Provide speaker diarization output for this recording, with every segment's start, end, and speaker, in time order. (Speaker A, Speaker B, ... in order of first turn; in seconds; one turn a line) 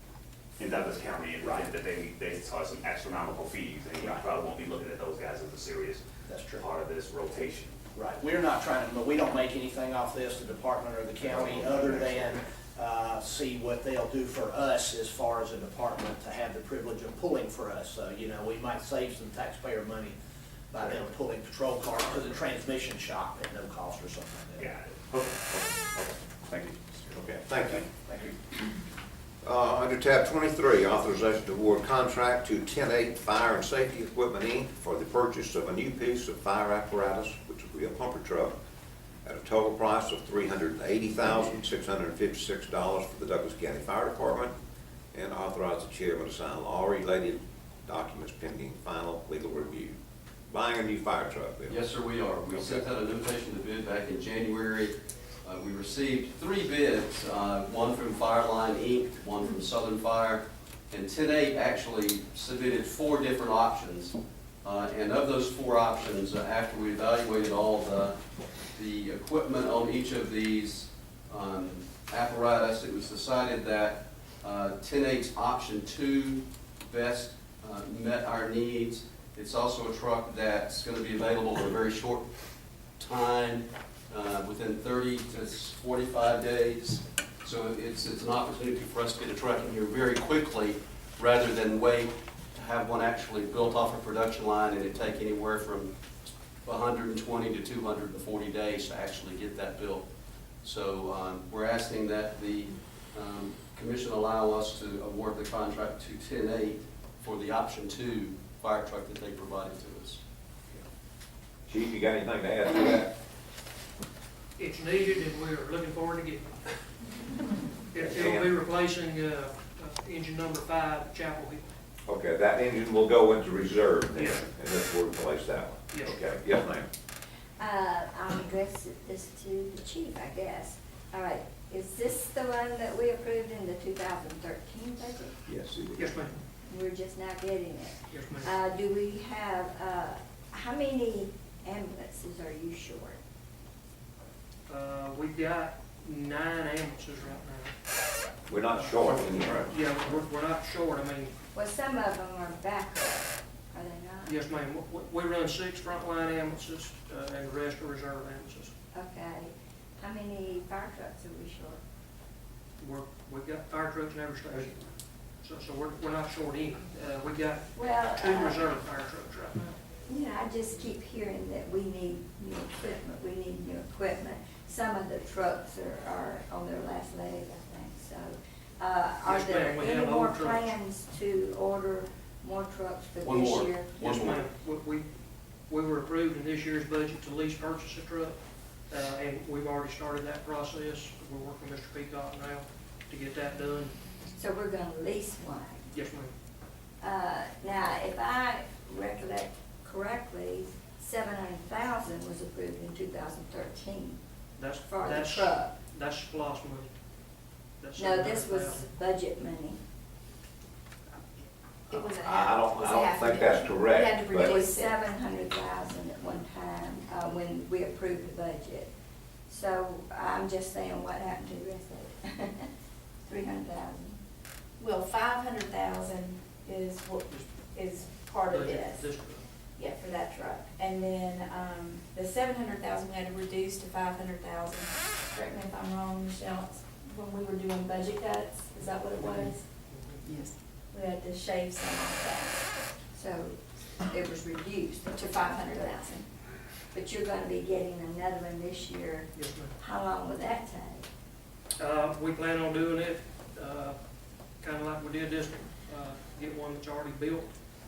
Speaker A: 0.6-7.8
Speaker B: 1.4-1.7
Speaker B: 4.0-4.3
Speaker B: 6.3-6.7
Speaker B: 7.9-20.1
Speaker A: 11.2-12.4
Speaker B: 20.7-24.7
Speaker A: 24.6-27.4
Speaker C: 27.1-27.8
Speaker B: 27.7-28.2
Speaker C: 29.4-38.5
Speaker C: 39.2-44.5
Speaker C: 45.1-50.0
Speaker C: 50.5-51.8
Speaker D: 51.7-68.2
Speaker C: 52.5-52.8
Speaker D: 68.7-82.3
Speaker D: 83.0-95.9
Speaker D: 96.6-100.0
Speaker D: 100.6-110.2
Speaker C: 111.7-113.1
Speaker E: 114.6-116.5
Speaker E: 117.9-121.6
Speaker C: 117.9-118.5
Speaker C: 122.0-126.9
Speaker E: 125.9-126.2
Speaker F: 127.6-135.4
Speaker C: 135.5-136.3
Speaker E: 136.0-136.3
Speaker F: 136.7-143.2
Speaker E: 138.1-138.5
Speaker E: 144.7-147.7
Speaker C: 148.5-149.7
Speaker E: 148.7-151.3
Speaker F: 151.5-154.3
Speaker E: 154.2-158.7
Speaker F: 158.9-161.8
Speaker E: 162.8-164.9
Speaker E: 165.4-169.7
Speaker F: 167.7-168.6
Speaker F: 170.1-183.9
Speaker E: 179.2-180.7
Speaker D: 183.2-184.5
Speaker E: 184.0-185.0
Speaker E: 185.7-188.3
Speaker E: 188.9-193.9
Speaker F: 194.3-195.9
Speaker E: 195.9-196.3
Speaker F: 197.0-204.2
Speaker E: 204.6-206.9
Speaker F: 204.8-205.7
Speaker E: 207.8-208.9
Speaker F: 208.0-209.8
Speaker C: 211.9-214.5
Speaker G: 211.9-215.0
Speaker F: 214.4-218.9
Speaker F: 219.5-222.7
Speaker F: 223.2-224.2
Speaker G: 224.8-229.1
Speaker E: 227.3-227.5
Speaker E: 228.5-229.4
Speaker G: 229.8-239.6
Speaker E: 239.2-240.2
Speaker G: 240.2-242.7
Speaker F: 243.1-246.1
Speaker G: 245.1-246.2
Speaker F: 246.9-251.1
Speaker E: 249.3-249.7
Speaker E: 251.8-253.9
Speaker E: 254.6-257.5